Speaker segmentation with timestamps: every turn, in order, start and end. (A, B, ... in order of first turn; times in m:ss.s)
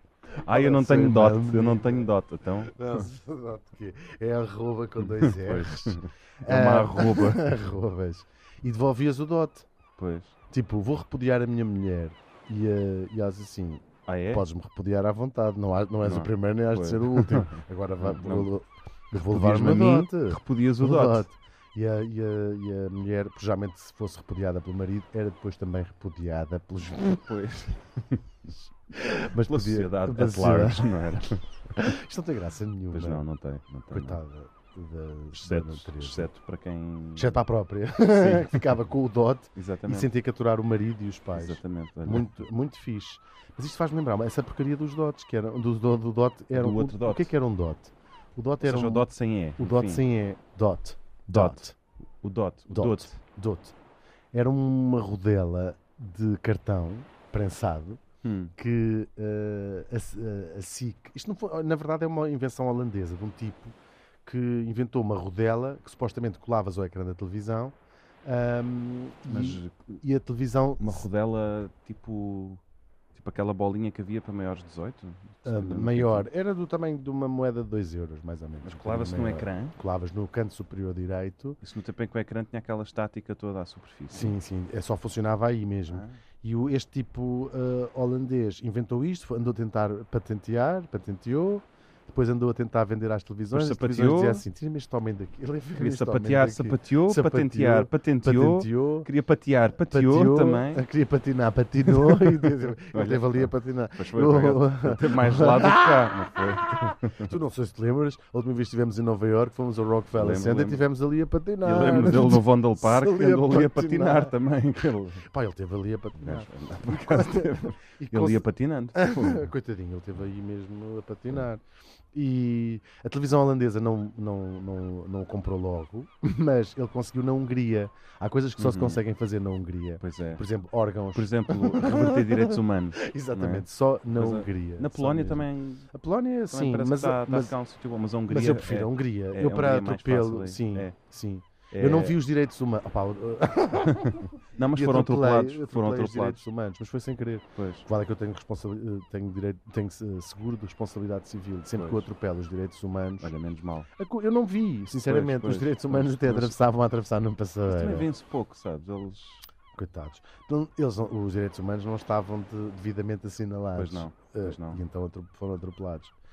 0:00.4-0:03.0 A
0:00.5-0:02.1 B
0:02.6-0:09.7 B
0:05.0-0:07.6 A
0:10.0-0:10.4 A
0:10.5-0:27.2 B
0:14.1-0:14.4 A
0:16.0-0:18.5 A
0:19.2-0:21.3 A
0:27.2-0:28.5 A
0:28.9-0:33.2 B
0:29.4-0:31.9 A
0:32.9-0:34.2 A
0:33.9-0:36.3 B
0:35.3-0:37.4 A
0:37.2-0:51.8 B
0:38.1-0:38.8 A
0:39.6-0:40.1 A
0:41.4-0:42.3 A
0:46.5-0:47.3 A
0:48.6-0:50.0 A
0:51.3-0:51.6 A
0:52.2-0:53.2 A
0:52.7-0:53.7 B
0:54.3-0:58.0 B
0:58.2-0:58.5 A
0:58.6-1:03.7 B
1:04.3-1:11.1 B
1:09.3-1:10.0 A
1:10.8-1:12.6 A
1:13.2-1:16.3 A
1:15.4-1:21.6 B
1:18.6-1:19.8 A
1:21.6-1:24.4 A
1:24.1-1:39.1 B
1:25.9-1:26.2 A
1:33.5-1:34.4 A
1:35.8-1:40.8 A
1:39.8-1:46.1 B
1:41.9-1:47.4 A
1:47.2-1:54.4 B
1:50.2-1:50.8 A
1:51.6-1:55.2 A
1:55.2-2:17.6 B
1:56.2-1:59.5 A
2:08.6-2:09.0 A
2:10.0-2:10.4 A
2:11.1-2:15.9 A
2:16.5-2:21.0 A
2:18.3-2:33.3 B
2:21.7-2:22.2 A
2:24.0-2:26.4 A
2:27.6-2:27.9 A
2:31.8-2:32.1 A
2:33.2-2:33.9 A
2:34.0-2:38.1 B
2:35.1-2:36.6 A
2:37.7-2:39.5 A
2:39.7-2:46.1 B
2:43.8-2:44.8 A